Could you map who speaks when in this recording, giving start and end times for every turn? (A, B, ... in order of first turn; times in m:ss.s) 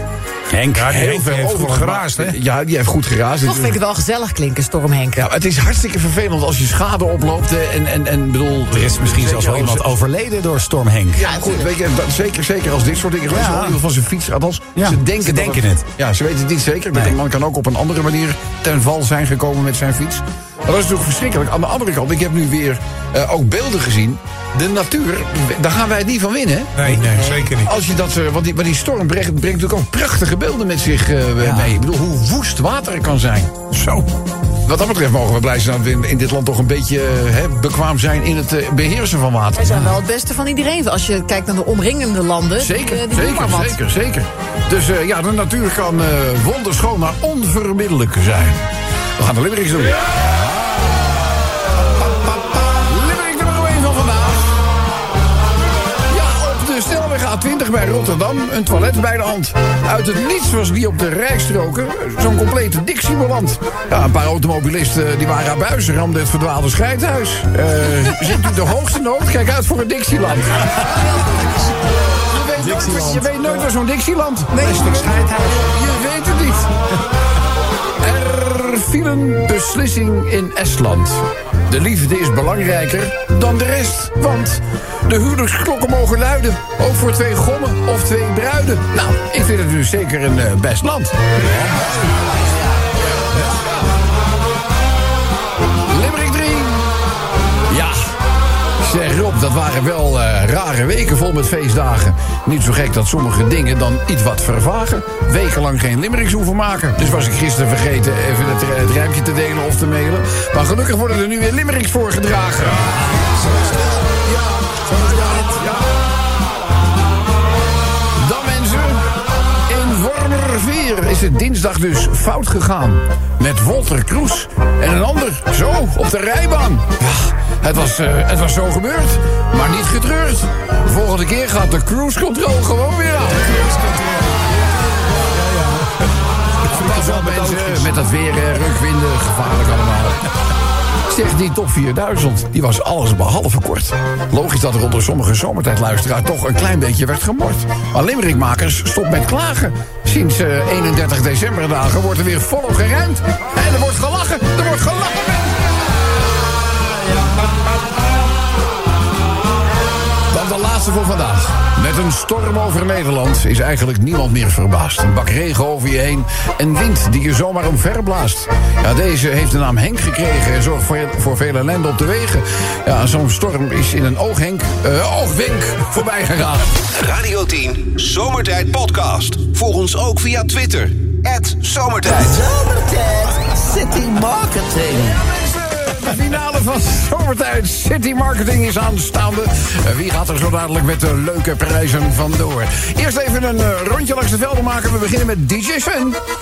0:00.5-0:00.9 A
0:00.7-0:02.4 B
0:00.8-0:03.8 C
0:03.4-0:05.3 D
0:05.2-0:09.9 C
0:08.7-0:11.2 A
0:11.1-0:26.7 C
0:11.2-0:11.7 D
0:13.3-0:13.8 A
0:14.7-0:15.8 A
0:26.8-0:27.7 B
0:27.6-0:33.5 C
0:31.4-0:31.8 A
0:33.7-0:34.0 B
0:34.6-0:40.0 C
0:39.5-0:43.8 D
0:42.6-0:48.6 C
0:49.2-0:50.2 C
0:52.7-0:54.5 C
0:56.1-1:10.8 C
1:12.3-1:16.7 C
1:12.6-1:13.2 B
1:12.7-1:13.2 A
1:14.5-1:15.7 B
1:18.0-1:31.2 C
1:32.9-1:33.8 C
1:35.9-1:36.8 C
1:37.7-1:38.1 C
1:38.8-1:52.9 C
1:52.9-1:53.8 B
1:53.0-1:54.0 A
1:54.2-1:55.8 C
1:58.2-1:59.1 C
1:59.7-2:13.7 C
2:13.4-2:14.6 B
2:15.2-2:15.9 B
2:16.7-2:20.2 C
2:16.7-2:17.8 B
2:17.0-2:17.7 A
2:21.1-2:35.7 C
2:40.3-2:56.7 C
2:57.0-3:02.4 E
3:02.1-3:05.2 F
3:04.9-3:16.2 C